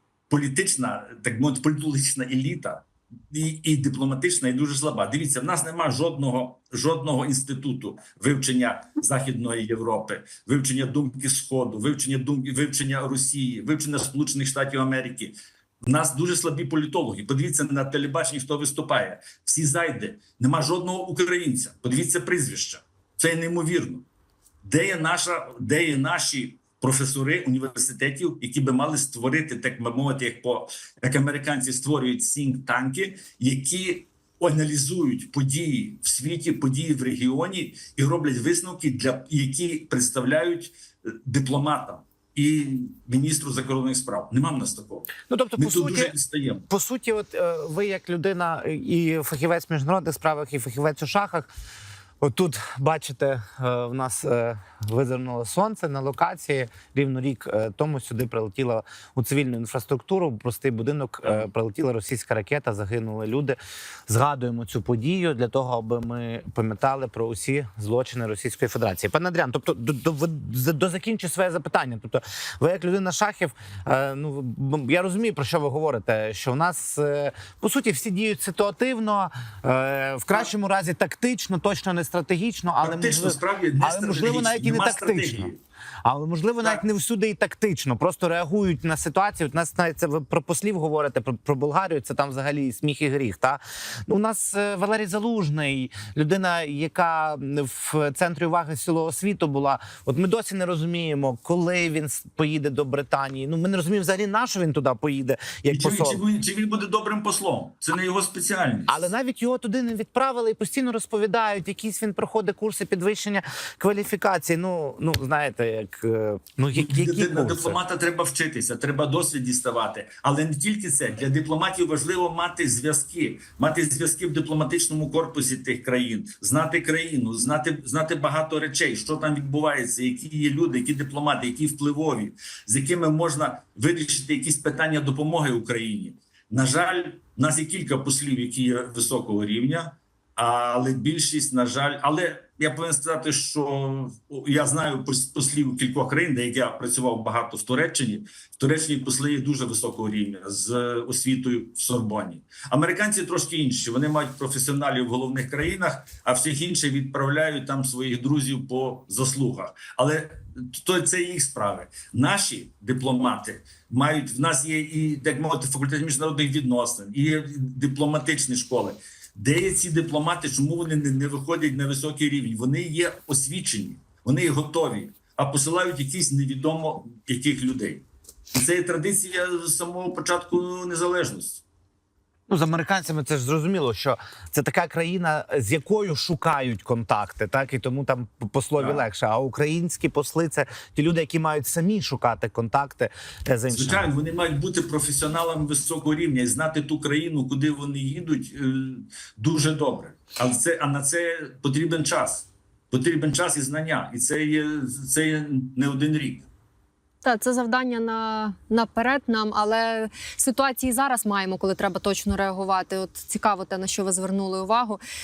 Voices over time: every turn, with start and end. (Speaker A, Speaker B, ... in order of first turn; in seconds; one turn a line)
Speaker A: 0.3-24.1
Speaker A: 24.6-46.7
Speaker B: 45.3-46.1
Speaker B: 46.7-51.5
Speaker B: 52.2-85.5
Speaker A: 82.8-85.6
Speaker B: 86.0-106.2
Speaker A: 105.7-109.1
Speaker B: 108.9-117.8
Speaker A: 116.7-181.6
Speaker B: 182.5-194.1
Speaker A: 188.8-189.0
Speaker A: 193.7-206.5
Speaker C: 207.2-215.0